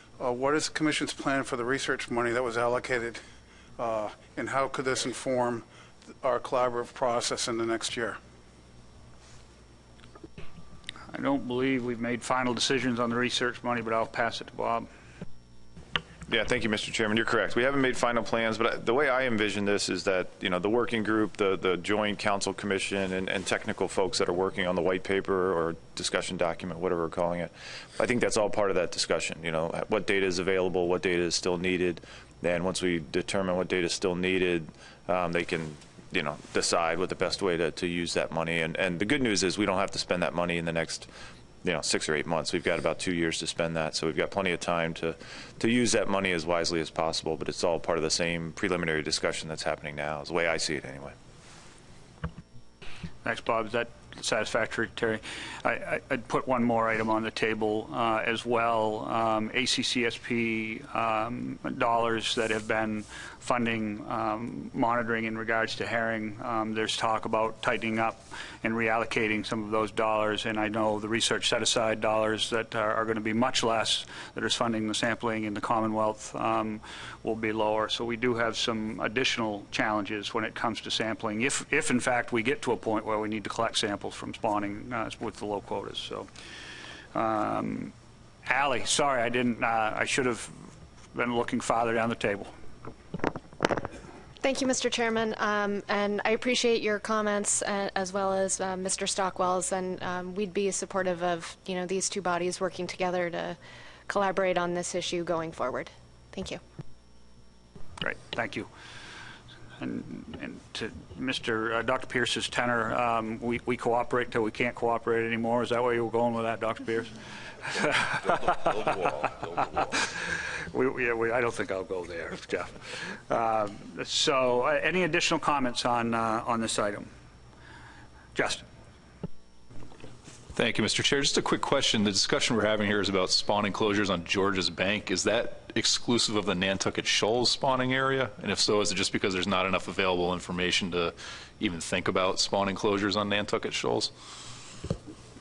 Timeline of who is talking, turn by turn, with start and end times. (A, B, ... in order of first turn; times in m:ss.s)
0:00.2-0:03.2 A
0:03.8-0:05.6 A
0:06.2-0:08.2 A
0:11.1-0:14.9 B
0:16.3-0:41.1 C
0:41.6-0:51.1 C
0:53.2-1:26.3 B
1:27.1-1:27.9 B
1:28.4-1:32.5 B
1:34.4-1:46.6 D
1:48.0-1:48.7 B
1:49.8-1:57.2 B
1:57.7-2:07.1 B
2:08.3-2:08.6 B
2:10.5-2:24.1 E